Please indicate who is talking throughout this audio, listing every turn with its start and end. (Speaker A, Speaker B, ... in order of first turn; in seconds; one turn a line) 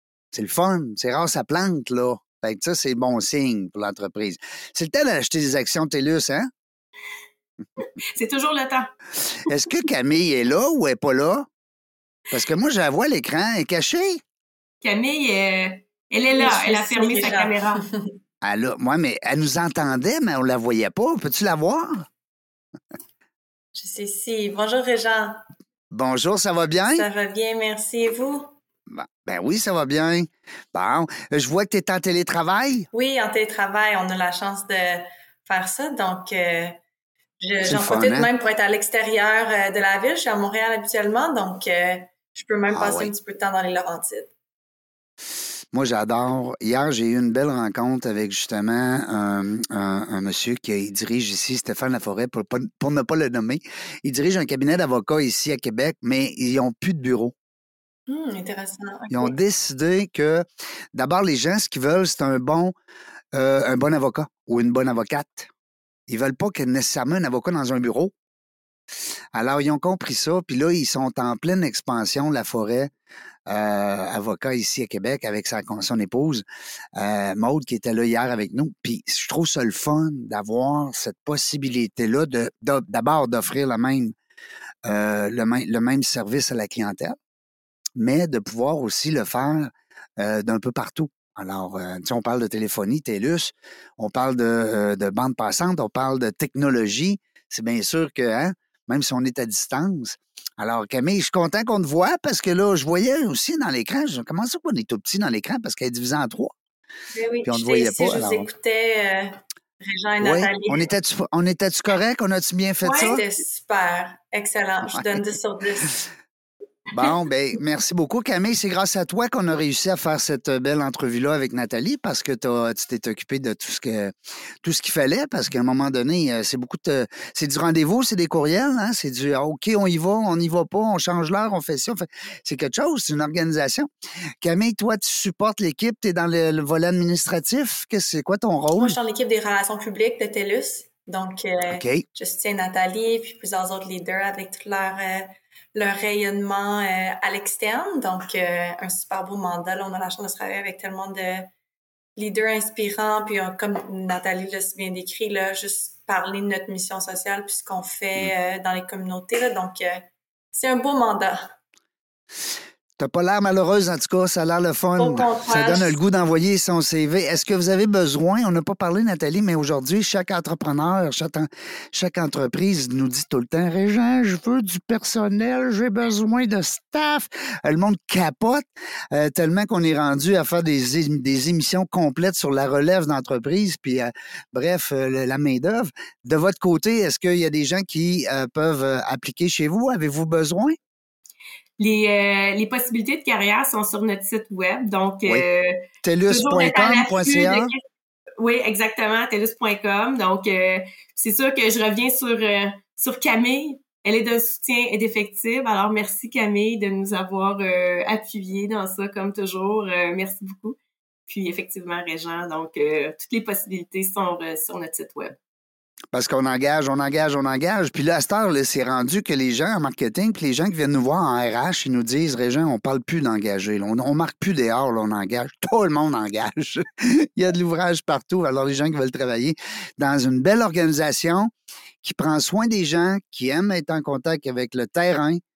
Speaker A: 0.3-6.5
Speaker B: 7.8-8.9
Speaker A: 9.5-11.5
Speaker A: 12.3-14.2
Speaker B: 14.8-17.8
Speaker C: 16.3-18.1
Speaker A: 18.4-22.1
Speaker C: 23.7-25.4
Speaker A: 25.9-27.1
Speaker C: 26.9-28.5
Speaker A: 28.9-32.9
Speaker C: 32.9-36.8
Speaker C: 37.4-44.3
Speaker A: 37.6-38.3
Speaker A: 42.7-43.1
Speaker A: 45.7-57.3
Speaker C: 58.1-59.4
Speaker A: 59.1-62.7
Speaker A: 63.3-65.5
Speaker A: 66.1-68.1
Speaker A: 69.3-72.9
Speaker A: 73.5-76.4
Speaker A: 77.0-84.1
Speaker A: 84.8-87.2
Speaker A: 88.0-106.5
Speaker C: 107.1-110.8
Speaker A: 107.5-108.5
Speaker A: 110.2-113.2
Speaker B: 112.8-113.1
Speaker C: 112.9-116.0
Speaker A: 116.9-133.9
Speaker A: 134.4-139.0
Speaker C: 138.7-151.5
Speaker A: 141.7-142.0
Speaker C: 152.2-160.0
Speaker C: 160.5-161.5
Speaker A: 163.0-190.8
Speaker C: 165.0-166.0
Speaker B: 191.8-197.8
Speaker A: 196.0-197.7
Speaker B: 198.4-215.3
Speaker A: 216.1-231.5
Speaker A: 232.0-235.4